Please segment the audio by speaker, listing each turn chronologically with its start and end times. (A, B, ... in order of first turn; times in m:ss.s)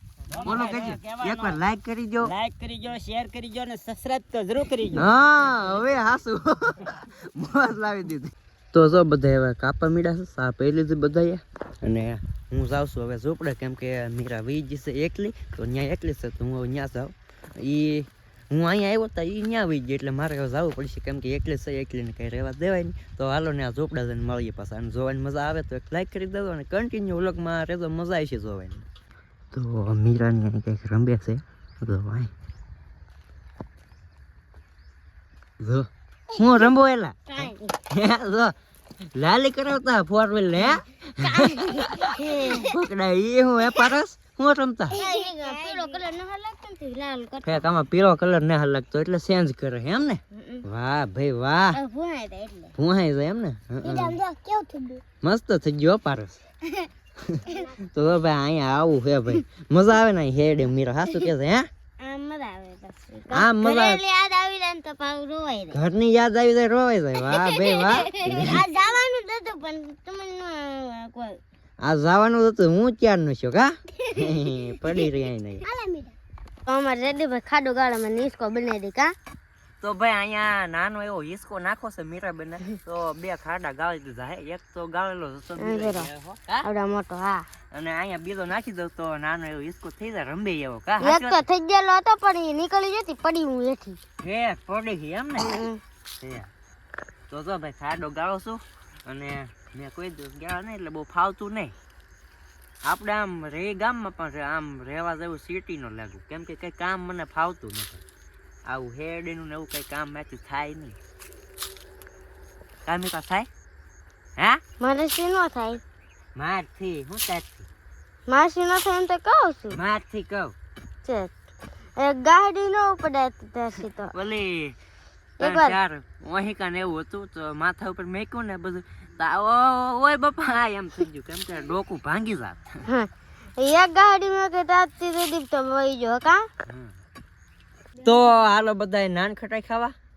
0:00.3-0:01.6 A
0:00.4-0:02.3 B
0:02.2-0:05.0 A
0:05.0-0:28.8 B
0:29.5-0:32.3 B
0:35.6-0:38.6 B
0:37.3-0:37.8 C
0:39.1-0:45.0 B
0:41.2-0:42.7 C
0:44.9-0:47.6 C
0:47.4-0:51.8 B
0:50.4-0:50.6 C
0:51.7-0:52.7 C
0:52.8-0:54.2 B
0:53.8-0:55.0 C
0:55.2-0:56.4 B
0:57.3-1:01.7 B
0:57.5-0:57.7 C
1:02.0-1:05.8 C
1:03.3-1:04.0 B
1:05.7-1:08.6 B
1:07.3-1:11.4 C
1:11.8-1:15.6 B
1:14.1-1:15.0 C
1:15.6-1:16.1 C
1:16.7-1:19.2 C
1:19.8-1:26.7 B
1:25.6-1:26.1 C
1:26.6-1:27.5 C
1:27.7-1:31.4 B
1:31.0-1:34.0 C
1:34.2-1:35.6 B
1:35.4-1:35.8 C
1:36.2-1:36.5 B
1:37.3-1:41.7 B
1:42.8-1:48.0 B
1:48.7-1:51.0 B
1:52.9-1:53.5 B
1:54.8-1:55.8 C
1:56.4-1:57.7 B
1:58.3-1:59.8 C
1:59.7-2:00.6 B
2:01.0-2:01.3 C
2:02.0-2:04.1 C
2:04.1-2:04.8 B
2:05.4-2:05.8 C
2:05.4-2:12.9 B
2:12.9-2:16.5 C
2:16.7-2:17.0 B
2:18.0-2:20.0 B